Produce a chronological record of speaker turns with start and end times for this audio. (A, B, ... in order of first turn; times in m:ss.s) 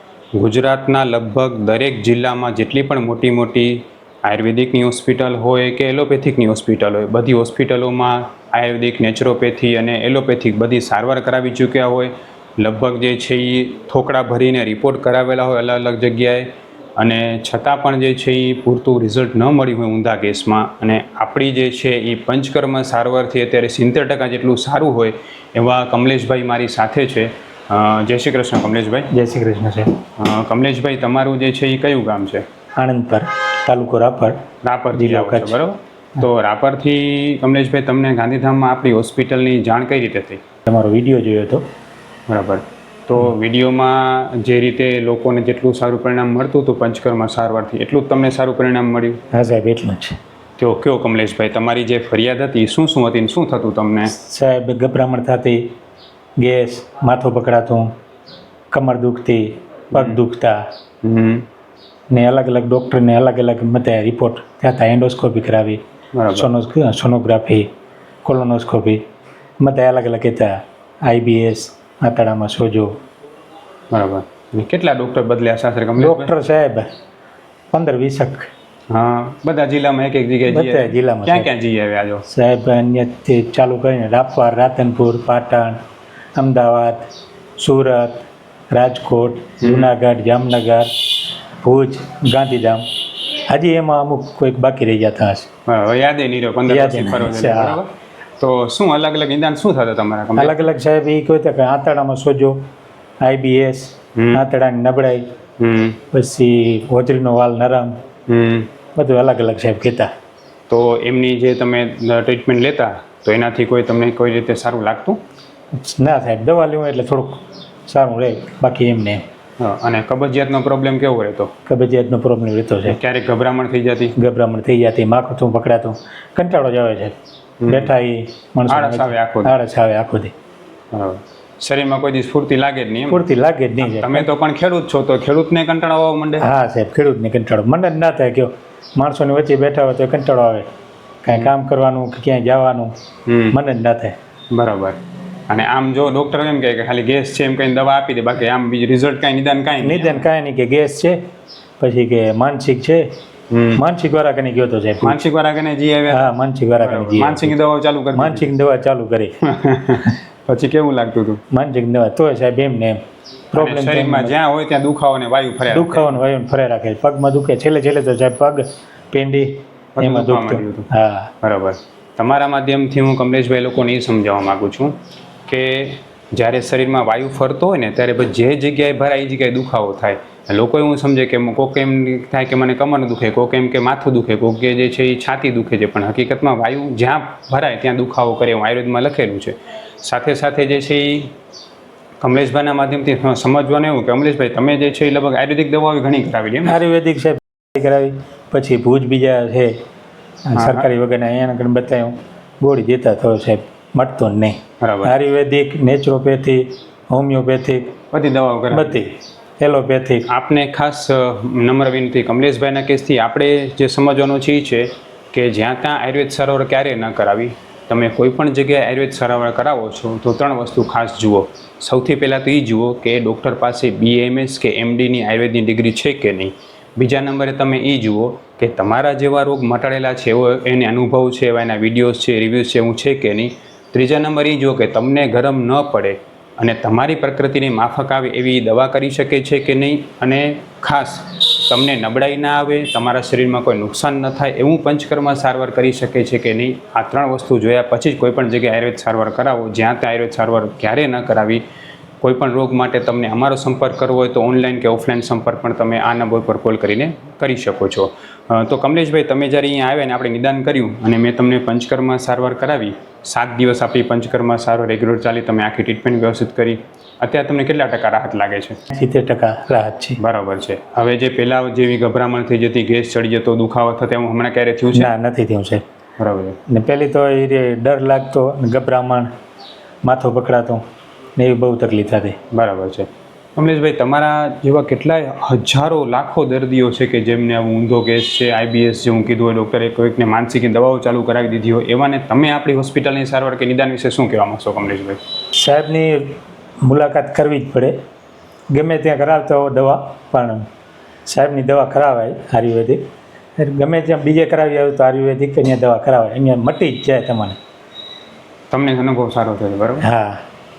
0:00.4-0:29.1 A
0:29.1-0:29.9 B
0:30.2-0:32.4 A
0:32.8-0:34.4 B
0:34.6-0:40.4 A
0:34.9-0:35.6 B
0:40.7-0:41.6 B
0:42.3-0:49.2 A
0:49.3-0:50.2 B
0:50.6-0:54.1 A
0:54.1-0:55.7 B
0:56.4-0:57.9 B
0:58.7-1:00.6 B
0:59.9-1:00.2 A
1:01.0-1:01.4 A
1:02.1-1:05.8 B
1:06.1-1:06.5 A
1:06.3-1:07.7 B
1:08.2-1:09.0 B
1:09.6-1:12.9 B
1:13.9-1:16.3 A
1:16.0-1:16.8 B
1:17.7-1:18.5 B
1:18.9-1:22.2 A
1:20.5-1:21.5 B
1:22.3-1:25.8 B
1:26.4-1:31.1 B
1:29.6-1:29.9 A
1:31.6-1:35.5 B
1:35.7-1:40.6 A
1:36.7-1:37.8 B
1:40.4-1:42.6 B
1:43.2-1:45.2 B
1:44.2-1:44.4 A
1:45.6-1:46.0 A
1:46.1-1:48.0 B
1:48.3-1:48.7 A
1:49.0-1:50.1 B
1:50.7-1:55.2 A
1:55.7-1:59.2 B
1:59.6-2:01.5 A
2:01.6-2:03.0 B
2:02.8-2:04.2 A
2:04.2-2:07.1 B
2:07.6-2:07.9 A
2:07.7-2:10.3 B
2:08.7-2:09.5 A
2:10.9-2:13.2 A
2:13.1-2:14.3 B
2:13.8-2:16.5 A
2:16.4-2:20.7 B
2:21.2-2:22.9 B
2:23.3-2:23.6 A
2:23.5-2:24.2 B
2:24.5-2:25.0 A
2:25.5-2:30.2 A
2:29.8-2:31.2 B
2:31.8-2:33.0 B
2:33.5-2:33.8 A
2:33.8-2:35.2 B
2:35.0-2:36.3 A
2:36.1-2:37.6 B
2:36.8-2:38.5 A
2:38.1-2:39.4 B
2:39.4-2:41.4 A
2:41.5-2:43.0 B
2:43.5-2:44.3 B
2:43.6-2:46.2 A
2:45.7-2:51.3 B
2:50.0-2:50.9 A
2:51.4-2:55.0 A
2:55.5-3:11.3 A
3:12.2-3:16.8 A
3:16.6-3:19.7 B
3:20.4-3:28.0 B
3:20.6-3:20.9 A
3:24.8-3:25.1 A
3:28.1-3:29.0 A
3:28.7-3:30.2 B
3:30.2-4:11.6 A
4:12.2-4:28.8 A
4:28.9-4:30.2 B
4:30.2-4:35.1 A
4:34.9-4:35.8 B
4:36.2-4:36.6 A
4:36.7-4:39.3 B
4:40.0-4:40.8 B
4:41.4-4:42.4 B
4:42.5-4:55.2 A
4:55.6-4:57.9 B
4:58.7-5:00.6 B
5:01.2-5:03.0 B
5:03.6-5:07.6 B
5:08.7-5:10.0 A
5:10.0-5:10.4 B